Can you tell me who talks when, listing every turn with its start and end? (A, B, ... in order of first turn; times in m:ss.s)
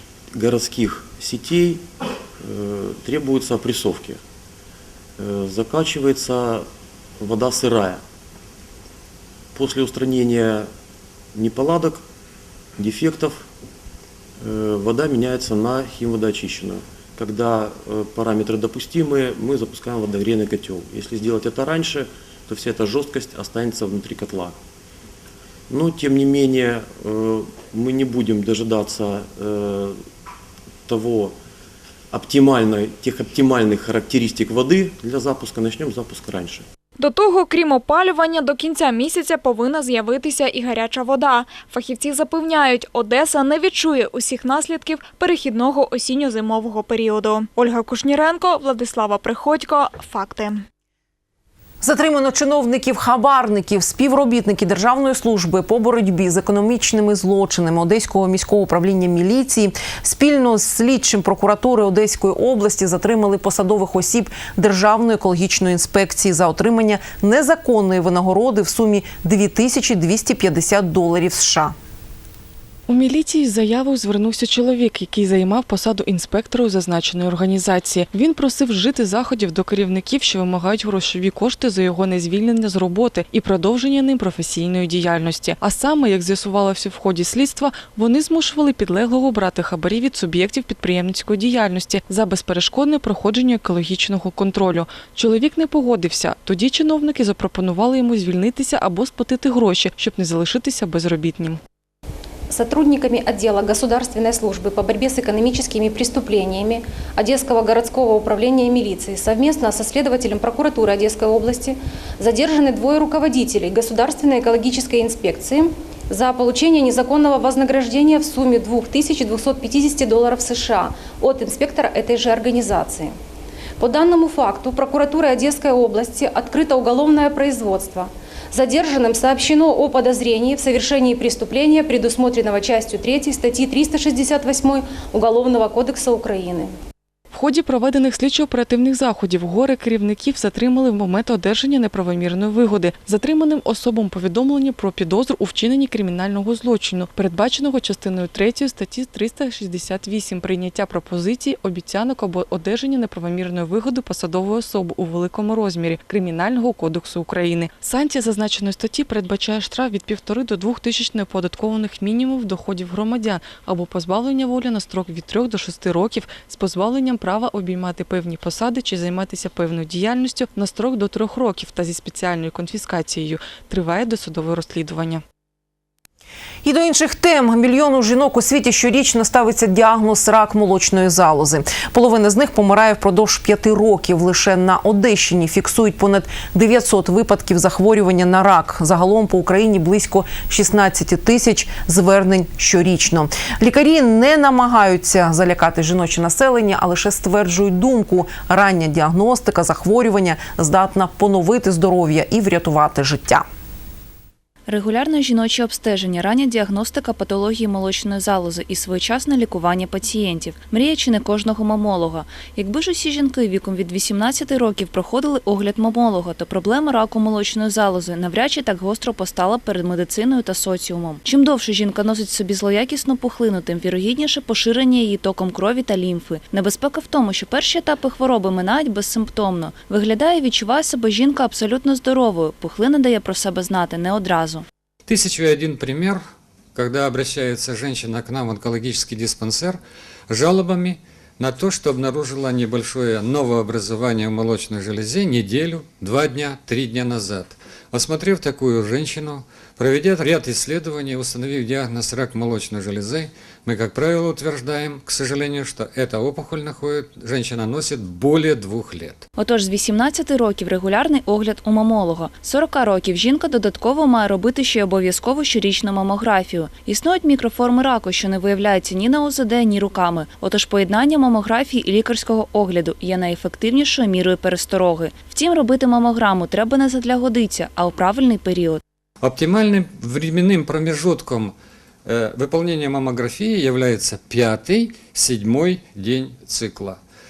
0:00.3-0:01.9 A
0:02.4-0:04.2 A
0:05.2-0:06.7 A
0:07.2-0:08.0 A
0:09.6-0:10.7 A
0:11.3-0:12.0 A
0:12.8-0:13.5 A
0:14.4-0:24.6 A
0:25.7-0:30.0 A
0:30.9-0:31.4 A
0:32.1-0:36.6 A
0:37.0-0:50.6 B
0:51.8-1:11.7 C
1:12.9-1:41.6 D
1:42.5-2:03.2 E
2:03.8-2:16.7 E
2:17.3-2:55.2 D
2:56.6-3:23.4 C
3:24.7-3:54.6 F
3:55.1-3:56.2 G
3:56.8-4:19.2 G
4:19.4-4:38.8 F
4:39.2-4:41.5 G
4:42.1-4:47.0 G